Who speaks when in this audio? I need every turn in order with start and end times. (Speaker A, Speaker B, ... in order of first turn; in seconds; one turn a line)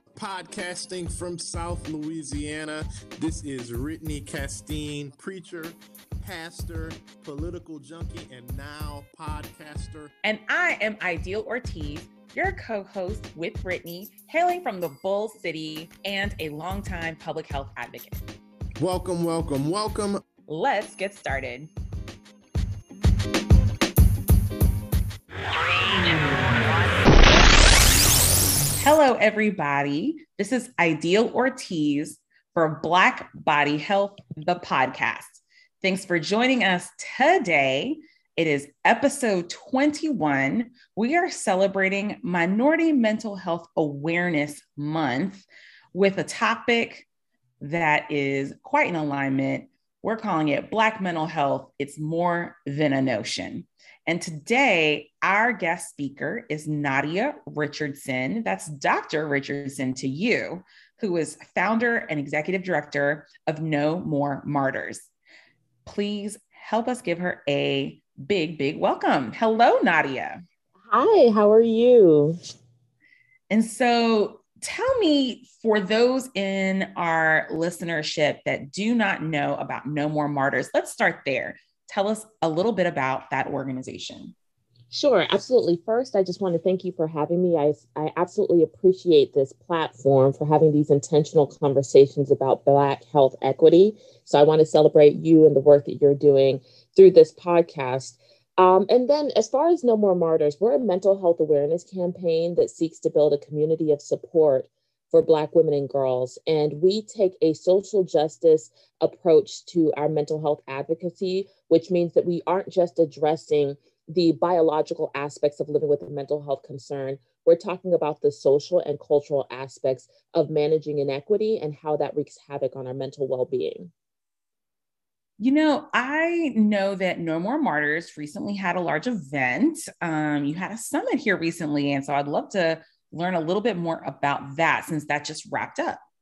Speaker A: 0.1-10.1
Speaker B: 10.2-18.2
Speaker A: 18.8-20.2
Speaker B: 20.5-21.7
Speaker B: 28.8-47.0
Speaker B: 47.6-65.1
Speaker B: 65.8-70.4
Speaker C: 70.9-72.4
Speaker B: 73.5-84.3
Speaker C: 84.9-123.9
Speaker B: 125.4-136.0